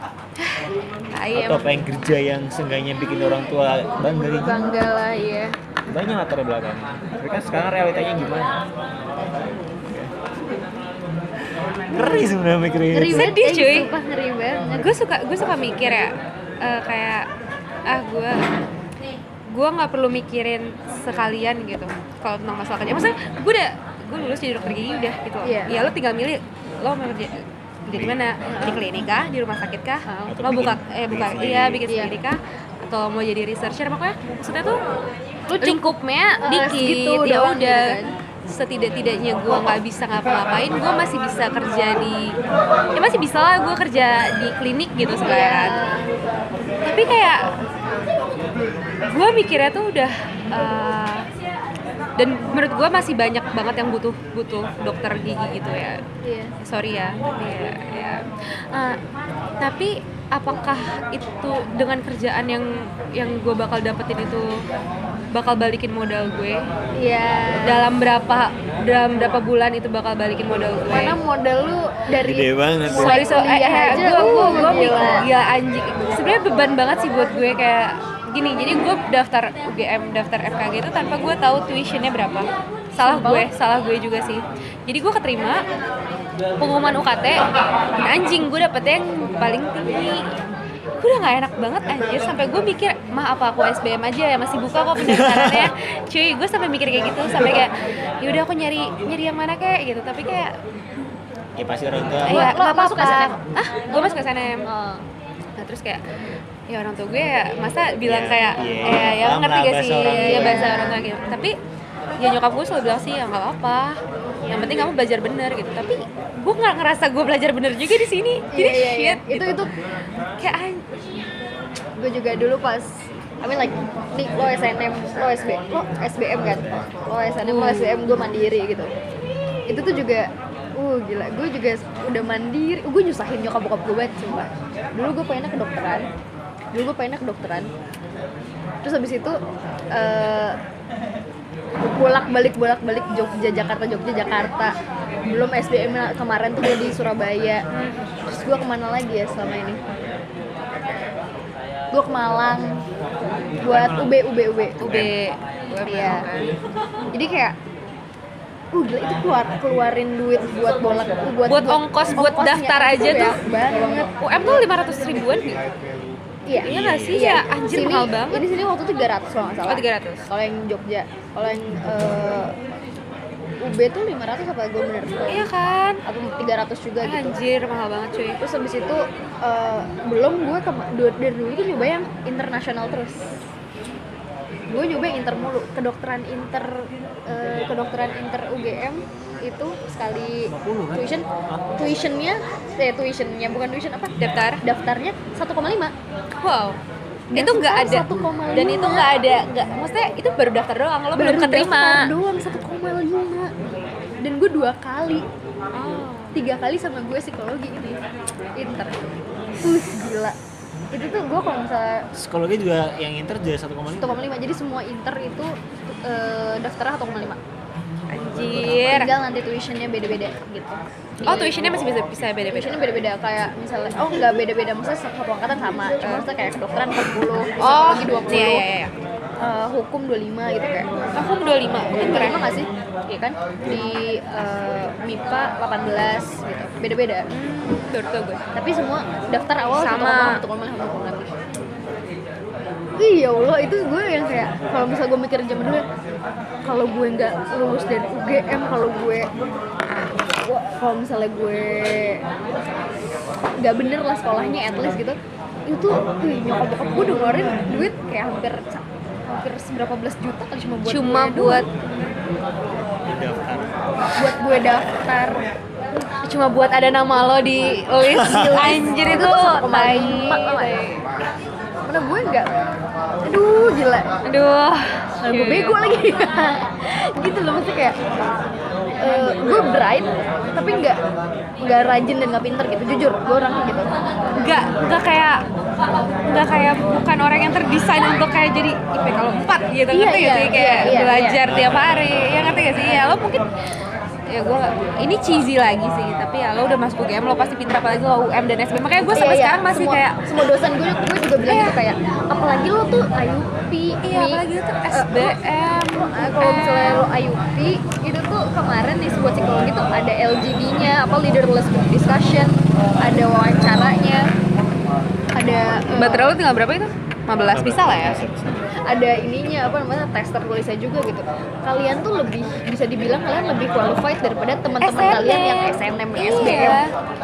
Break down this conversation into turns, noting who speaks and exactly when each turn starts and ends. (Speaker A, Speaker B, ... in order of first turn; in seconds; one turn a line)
Speaker A: 0.4-1.7
Speaker B: 1.3-4.7
Speaker C: 4.2-5.5
Speaker B: 5.9-8.6
Speaker B: 9.8-10.1
Speaker B: 11.9-13.3
Speaker C: 12.9-14.9
Speaker A: 13.1-13.9
Speaker A: 14.8-17.3
Speaker A: 17.9-18.4
Speaker A: 19.5-34.8
Speaker C: 25.4-25.9
Speaker B: 27.9-28.2
Speaker C: 28.4-28.8
Speaker B: 30.3-31.9
Speaker C: 31.9-32.1
Speaker C: 35.5-38.1
Speaker A: 35.6-38.0
Speaker A: 38.5-42.4
Speaker A: 42.9-45.8
Speaker C: 45.2-46.1
Speaker A: 46.8-47.5
Speaker A: 49.0-51.2
Speaker A: 52.2-56.0
Speaker C: 56.2-56.5
Speaker A: 56.6-59.0
Speaker A: 59.6-64.6
Speaker A: 65.3-66.6
Speaker C: 67.0-67.9
Speaker A: 67.6-71.2
Speaker C: 70.9-75.2
Speaker B: 72.2-73.2
Speaker A: 72.9-85.6
Speaker C: 83.0-83.5
Speaker A: 86.6-87.4
Speaker A: 88.0-90.2
Speaker A: 91.0-100.5
Speaker B: 95.0-95.7
Speaker B: 101.6-102.5
Speaker C: 102.3-103.3
Speaker A: 102.3-104.7
Speaker C: 103.9-105.0
Speaker A: 105.6-106.0
Speaker A: 106.7-111.5
Speaker B: 108.0-110.7
Speaker C: 110.0-111.0
Speaker A: 112.2-119.6
Speaker C: 114.4-114.8
Speaker C: 118.5-119.7
Speaker A: 120.4-120.8
Speaker C: 122.0-128.9
Speaker A: 127.4-128.2
Speaker C: 129.7-136.1
Speaker C: 136.7-137.7
Speaker C: 138.8-139.4
Speaker C: 139.9-140.6
Speaker C: 141.8-144.7
Speaker C: 145.3-147.6
Speaker A: 147.7-148.1
Speaker C: 148.2-149.8
Speaker C: 151.9-152.8
Speaker B: 153.6-154.1
Speaker C: 153.6-154.9
Speaker A: 154.8-156.5
Speaker B: 154.8-155.1
Speaker C: 155.8-156.3
Speaker C: 157.1-157.6
Speaker C: 158.7-164.6
Speaker A: 161.5-163.4
Speaker A: 164.2-165.6
Speaker C: 166.4-172.5
Speaker B: 166.6-167.2
Speaker A: 166.6-168.4
Speaker A: 169.7-170.2
Speaker C: 173.6-175.5
Speaker A: 175.3-176.0
Speaker C: 176.1-177.3
Speaker A: 177.0-178.4
Speaker C: 178.4-183.4
Speaker C: 184.7-191.2
Speaker B: 190.5-191.8
Speaker C: 191.8-195.9
Speaker A: 194.2-194.6
Speaker A: 196.4-196.8
Speaker C: 197.3-199.2
Speaker A: 197.3-202.1
Speaker C: 201.1-203.5
Speaker C: 204.2-205.2
Speaker A: 205.7-206.4
Speaker C: 206.3-208.0
Speaker C: 208.6-209.0
Speaker C: 209.6-210.3
Speaker C: 210.9-212.1
Speaker B: 212.1-214.2
Speaker C: 214.0-217.4
Speaker A: 218.1-219.1
Speaker C: 218.7-221.6
Speaker A: 221.2-222.8
Speaker C: 222.5-228.6
Speaker A: 227.6-228.9
Speaker C: 229.4-230.9
Speaker A: 231.2-232.4
Speaker C: 231.9-237.2
Speaker A: 237.3-238.4
Speaker C: 238.5-241.3
Speaker A: 239.8-240.4
Speaker C: 243.0-245.8
Speaker C: 246.6-249.3
Speaker C: 250.3-252.2
Speaker C: 253.6-261.8
Speaker A: 260.9-261.7
Speaker B: 263.1-263.8
Speaker C: 264.1-265.4
Speaker A: 266.2-271.0
Speaker C: 268.1-270.8
Speaker C: 271.8-272.6
Speaker C: 273.2-274.1
Speaker A: 274.2-275.8
Speaker C: 275.2-277.9
Speaker C: 279.0-281.0
Speaker C: 281.6-283.9
Speaker A: 284.4-285.4
Speaker A: 286.2-293.4
Speaker C: 289.9-291.4
Speaker B: 291.4-292.8
Speaker A: 294.3-300.2
Speaker C: 299.1-314.3
Speaker A: 301.4-301.8
Speaker A: 304.0-307.1
Speaker C: 315.3-316.4
Speaker A: 315.9-318.2
Speaker B: 317.5-318.6
Speaker C: 318.8-326.8
Speaker A: 324.8-326.9